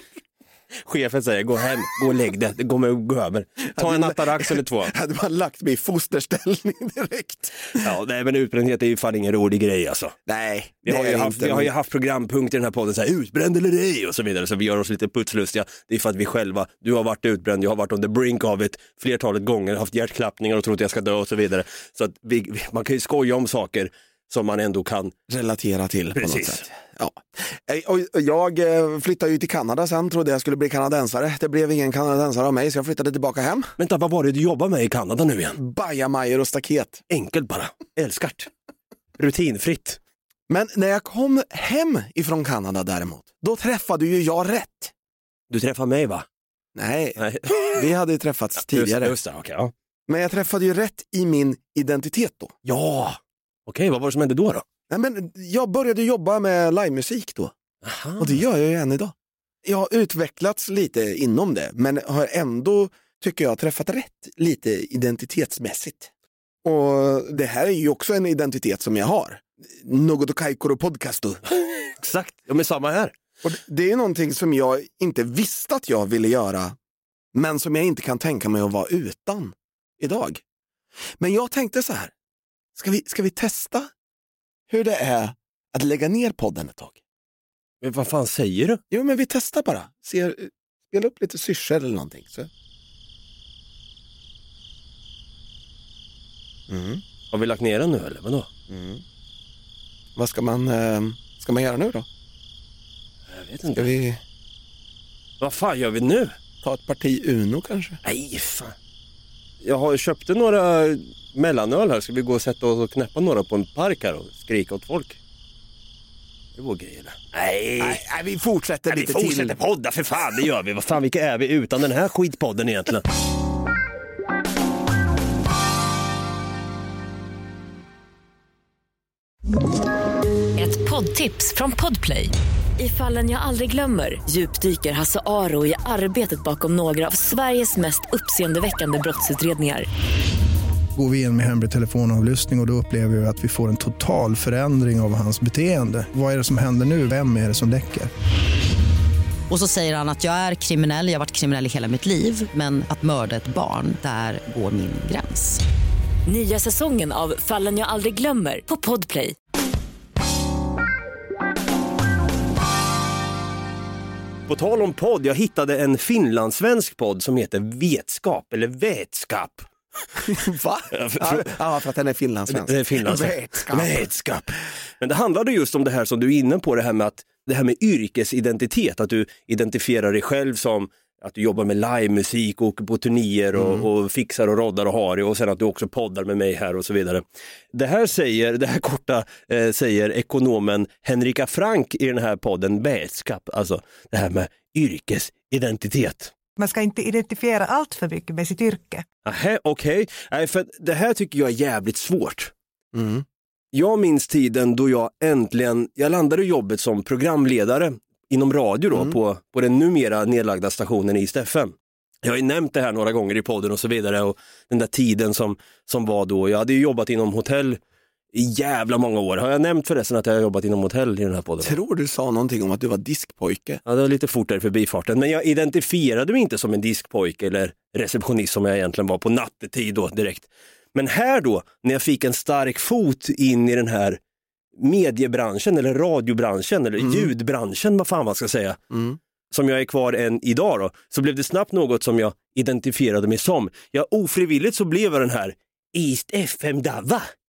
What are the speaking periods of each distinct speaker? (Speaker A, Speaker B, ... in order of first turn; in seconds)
Speaker A: 0.8-4.9, 7.7-10.2, 10.8-25.1, 26.1-26.7, 33.8-35.6, 37.1-38.5, 39.2-40.0, 45.5-46.3, 47.2-47.9, 48.6-49.7, 52.6-54.6, 57.8-58.4, 71.8-73.1, 87.8-88.8, 97.3-98.5, 103.3-103.9, 105.4-106.3, 108.0-108.8, 109.6-115.2, 116.6-118.0, 118.9-123.0, 164.5-170.2, 170.9-171.6, 172.5-187.2, 187.7-196.3, 199.2-202.5, 203.7-217.8, 218.3-221.8, 223.8-234.2, 234.8-238.8, 239.5-247.3
Speaker B: 3.7-7.8, 10.3-11.7, 25.3-33.7, 35.5-37.0, 40.5-44.9, 46.8-47.2, 47.7-49.1, 50.1-52.5, 54.9-57.5, 58.2-66.1, 66.6-71.4, 73.4-76.8, 77.3-80.4, 81.2-82.1, 82.8-83.9, 84.7-87.0, 88.9-92.5, 96.7-97.0, 98.7-99.0, 100.2-102.1, 103.8-104.2, 106.6-108.0, 117.8-119.5, 170.2-174.1, 183.6-183.9, 202.9-203.2, 221.6-223.8, 237.0-237.3, 238.9-239.2
Speaker C: 130.6-139.9, 156.3-159.4
Speaker D: 141.0-148.1
Speaker E: 149.5-155.6
Speaker F: 196.6-199.1